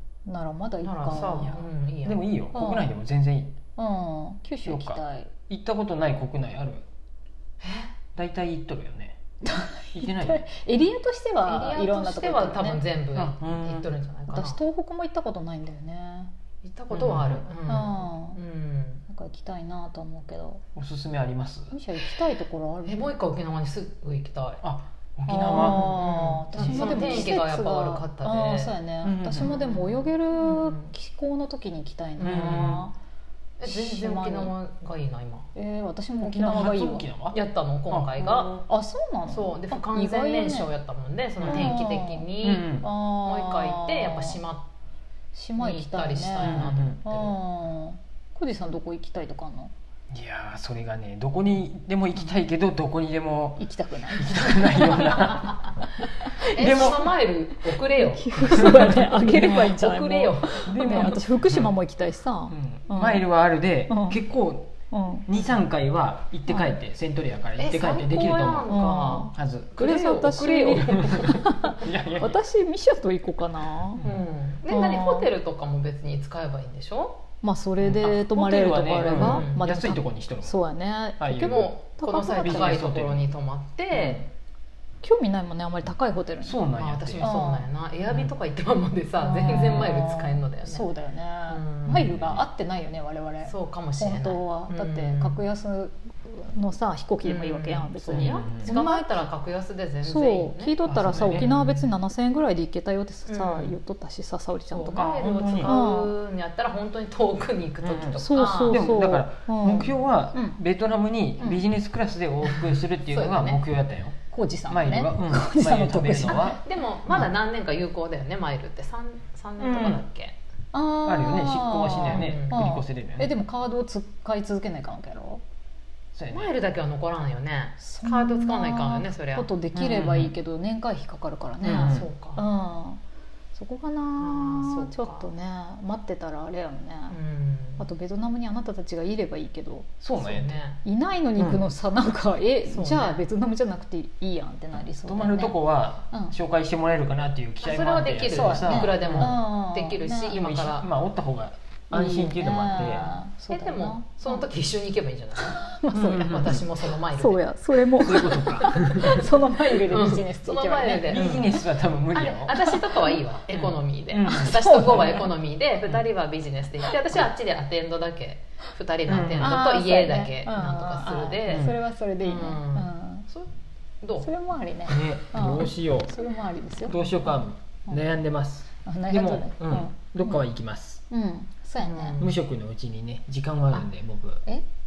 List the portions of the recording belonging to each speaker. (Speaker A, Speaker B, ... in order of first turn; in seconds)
Speaker A: 0.3-1.6, 2.5-2.9, 3.8-5.3, 9.4-12.8, 14.3-16.3, 17.6-18.4, 19.1-20.6, 21.7-23.1, 25.3-32.9, 33.6-34.5, 35.5-37.1, 38.4-40.7, 41.5-44.4, 45.3-49.7, 53.6-55.5, 56.2-57.0, 57.9-63.3, 63.8-64.2, 64.9-65.3, 66.5-66.8, 68.7-74.0, 74.7-75.3, 77.4-82.8, 85.0-86.6, 87.2-87.7, 89.2-99.3, 100.0-106.1, 108.2-110.6, 111.4-111.7, 114.3-116.6, 120.7-125.4, 127.8-133.0, 133.5-137.2, 137.8-140.0, 140.8-146.3, 148.3-150.4, 151.9-154.5, 155.6-156.6, 157.1-161.5, 162.5-163.2, 164.2-165.3, 169.4-173.3, 174.2-178.1, 178.8-180.4, 181.1-182.2
Speaker B: 0.8-2.4, 7.6-7.9, 11.5-14.6, 16.6-19.0, 22.9-24.6, 25.4-28.7, 29.4-30.9, 32.2-32.9, 33.6-35.5, 37.3-38.6, 39.3-44.7, 45.6-47.4, 56.4-61.2, 67.6-71.3, 74.0-77.2, 79.0-79.6, 81.4-84.3, 86.8-90.8, 91.5-92.2, 93.4-95.4, 97.2-101.9, 103.3-103.8, 104.7-108.8, 112.4-113.6, 116.3-120.3, 122.0-122.6, 126.3-129.9, 131.8-132.4, 134.2-135.3, 137.1-137.8, 140.2-140.8, 142.7-143.2, 147.6-150.9, 152.7-157.4, 158.3-158.7, 159.8-173.5, 174.0-174.3, 181.8-182.3
Speaker C: 1.4-3.5, 4.7-6.9, 8.2-9.2, 9.9-10.5, 13.2-13.9, 16.9-17.4, 20.8-21.8, 24.6-27.4, 29.0-29.5, 32.2-32.8, 36.2-37.4, 37.9-38.6, 41.4-41.8, 42.4-42.9, 46.4-47.0, 50.1-55.6, 56.4-57.1, 60.6-61.8, 62.5-64.8, 65.3-68.7, 69.3-72.4, 74.0-74.2, 77.8-80.6, 81.2-81.7, 82.4-83.3, 83.9-84.2, 86.4-87.2, 92.0-92.4, 98.1-98.7, 100.8-101.6, 105.2-105.7, 107.8-114.2, 114.7-116.6, 119.6-120.0, 121.0-123.3, 126.1-126.5, 129.8-130.3, 131.6-132.1, 140.0-140.6, 141.4-141.6, 144.9-149.4, 150.3-153.2, 155.9-156.6, 158.0-159.2, 161.1-162.6, 163.5-165.2, 169.1-169.6, 171.5-171.8, 174.9-176.2, 176.8-181.0, 182.2-184.4